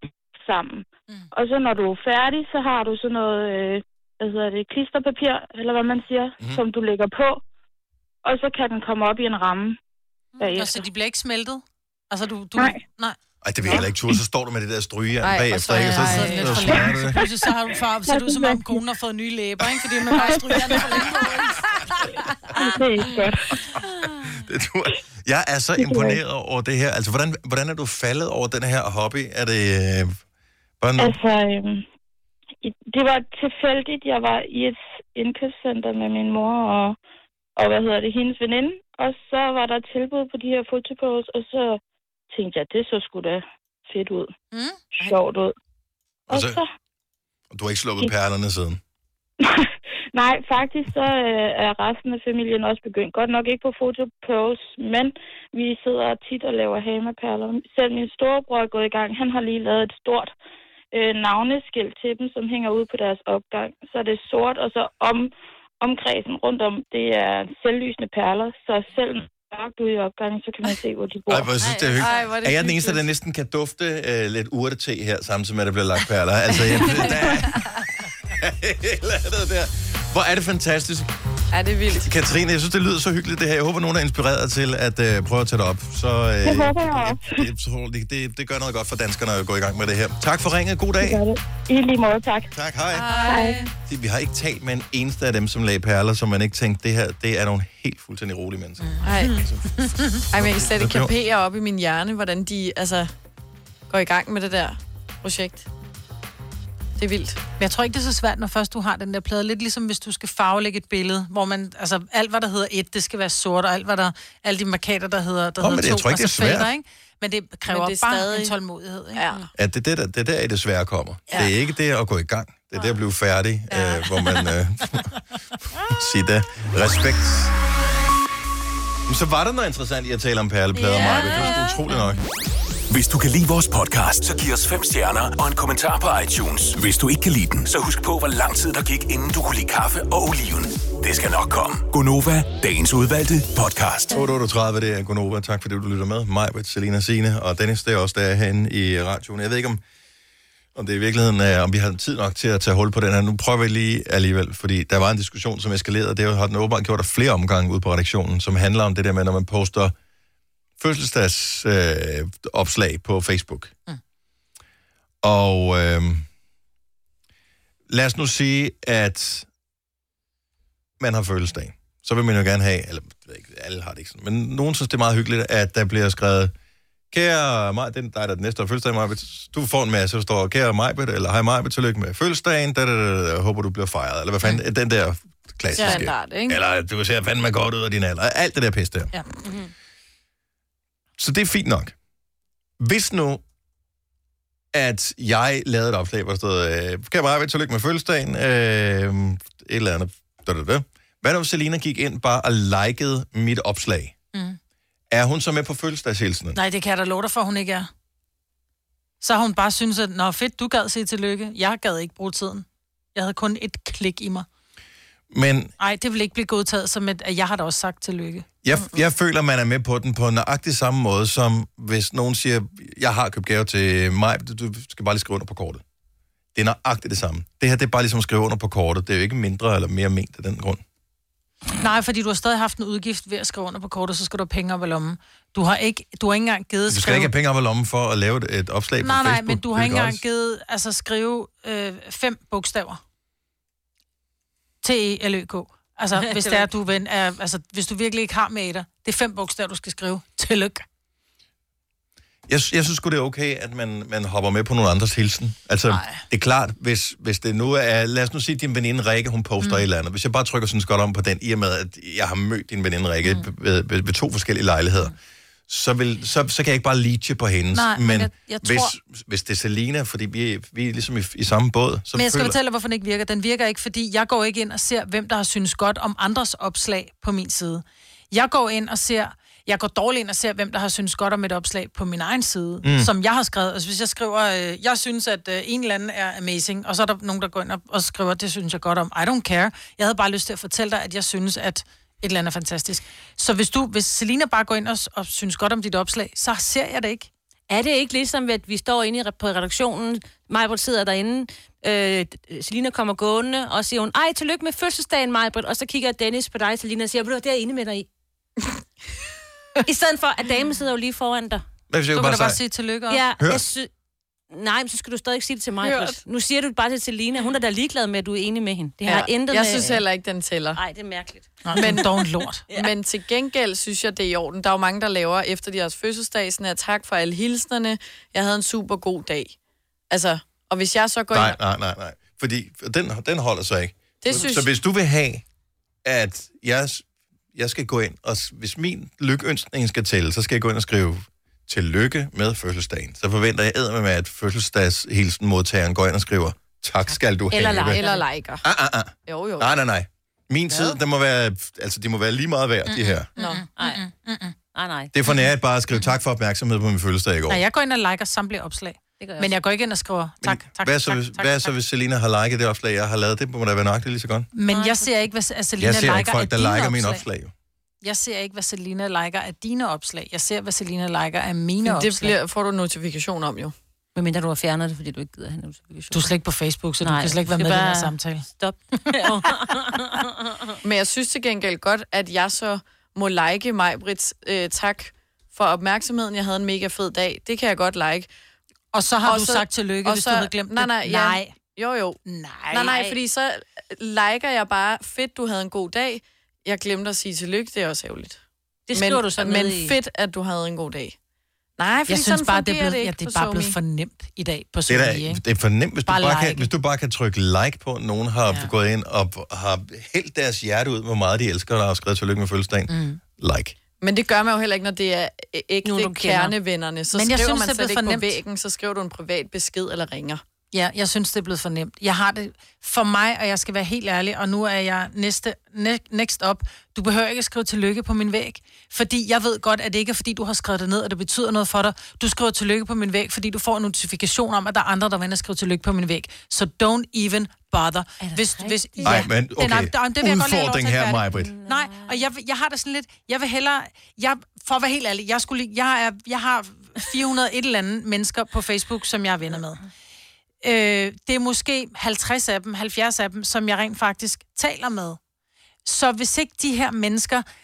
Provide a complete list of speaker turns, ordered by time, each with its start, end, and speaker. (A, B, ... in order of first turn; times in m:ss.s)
0:00.4-0:07.4 A
0:08.2-0:09.8 A
0:10.4-0:10.8 A
0:10.4-0:13.2 B
0:13.4-0:17.2 C
0:15.2-0:16.9 D
0:15.7-0:22.0 B
0:18.1-0:18.8 A
0:20.2-0:20.8 A
0:20.2-0:21.4 D
0:22.6-0:23.6 A
0:23.5-0:30.2 C
0:25.8-0:26.2 A
0:30.8-0:31.1 C
0:31.0-0:31.8 A
0:32.6-0:37.0 A
0:37.6-0:44.3 A
0:44.5-0:45.2 B
0:45.0-0:45.5 A
0:46.3-0:46.6 C
0:46.3-0:46.7 A
0:47.5-0:48.8 C
0:49.4-1:00.3 A
1:00.9-1:11.5 A
1:11.3-1:21.1 C
1:11.6-1:12.3 E
1:12.0-1:13.0 D
1:21.5-1:22.1 D
1:21.9-1:31.2 C
1:26.4-1:27.4 A
1:31.0-1:32.5 A
1:32.5-1:33.2 C
1:32.9-1:33.6 B
1:33.0-1:33.7 D
1:33.3-1:33.6 A
1:33.8-1:41.1 C
1:39.0-1:39.4 D
1:39.8-1:40.2 B
1:40.3-1:43.1 D
1:43.9-1:45.7 D
1:47.0-1:47.4 D
1:47.6-1:59.3 B
1:55.6-1:56.7 C
1:57.7-1:58.5 D
1:59.2-1:59.4 D
1:59.6-2:05.1 C
2:03.7-2:04.2 D
2:05.8-2:07.5 C
2:09.1-2:12.2 C
2:10.7-2:12.1 B
2:12.9-2:24.2 F
2:24.1-2:29.8 C
2:30.7-2:39.9 C
2:40.8-2:43.7 C
2:45.2-2:46.2 C
2:47.9-2:49.5 C
2:51.0-2:56.5 C
2:57.1-3:09.1 C
3:05.8-3:06.6 D
3:09.4-3:09.7 E
3:11.2-3:11.9 C
3:12.8-3:13.4 C
3:14.7-3:24.1 C
3:25.1-3:26.6 C
3:26.5-3:27.9 B
3:29.2-3:34.4 B
3:35.3-3:35.7 C
3:35.8-3:38.4 B
3:38.6-3:45.8 C
3:46.5-3:50.8 C
3:51.7-3:57.3 B
3:56.9-4:00.2 C
3:59.0-4:03.0 B
4:04.8-4:10.8 B
4:06.2-4:06.7 E
4:12.5-4:25.1 C
4:15.9-4:16.2 B
4:25.7-4:32.6 C
4:27.7-4:28.9 B
4:32.1-4:57.3 B
4:42.8-4:43.1 C
4:57.7-5:08.1 E
5:09.8-5:11.6 E
5:11.9-5:12.6 C
5:12.1-5:13.2 B
5:13.1-5:13.9 E
5:14.5-5:20.0 E
5:15.8-5:16.2 D
5:19.0-5:20.8 D
5:20.8-5:22.2 E
5:21.6-5:22.6 B
5:21.7-5:22.1 D
5:22.7-5:29.5 D
5:30.1-5:31.6 D
5:31.3-5:35.4 C
5:34.2-5:34.7 D
5:36.0-5:48.0 C
5:47.5-5:48.2 E
5:47.8-5:48.6 D
5:48.6-5:53.3 C
5:49.2-5:49.7 D
5:52.9-5:53.2 E
5:53.4-5:53.6 D
5:53.4-5:54.5 B
5:53.8-5:54.1 E
5:54.7-5:55.1 E
5:55.1-5:57.6 C
5:57.5-6:01.7 B
5:59.2-5:59.5 E
6:00.4-6:04.5 C
6:04.5-6:07.2 B
6:04.7-6:05.1 E
6:05.8-6:07.5 C
6:08.0-6:12.3 B
6:11.8-6:13.7 D
6:14.1-6:16.3 E
6:16.1-6:18.5 B
6:17.0-6:20.7 E
6:19.0-6:19.4 B
6:20.8-6:28.3 D
6:28.9-6:31.5 B
6:29.2-6:32.2 D
6:32.2-6:32.9 B
6:32.7-6:38.4 D
6:32.8-6:33.1 E
6:38.9-6:40.0 E
6:38.9-6:41.2 D
6:41.8-6:43.8 D
6:42.1-6:45.4 B
6:44.9-6:53.8 C
6:46.0-6:46.7 B
6:52.9-6:53.2 B
6:54.0-7:00.4 D
6:55.8-6:56.5 E
6:57.1-6:58.4 B
7:00.7-7:29.8 B
7:18.2-7:19.2 E
7:19.0-7:21.5 C
7:21.3-7:22.2 E
7:30.6-7:35.2 B
7:35.8-7:37.4 B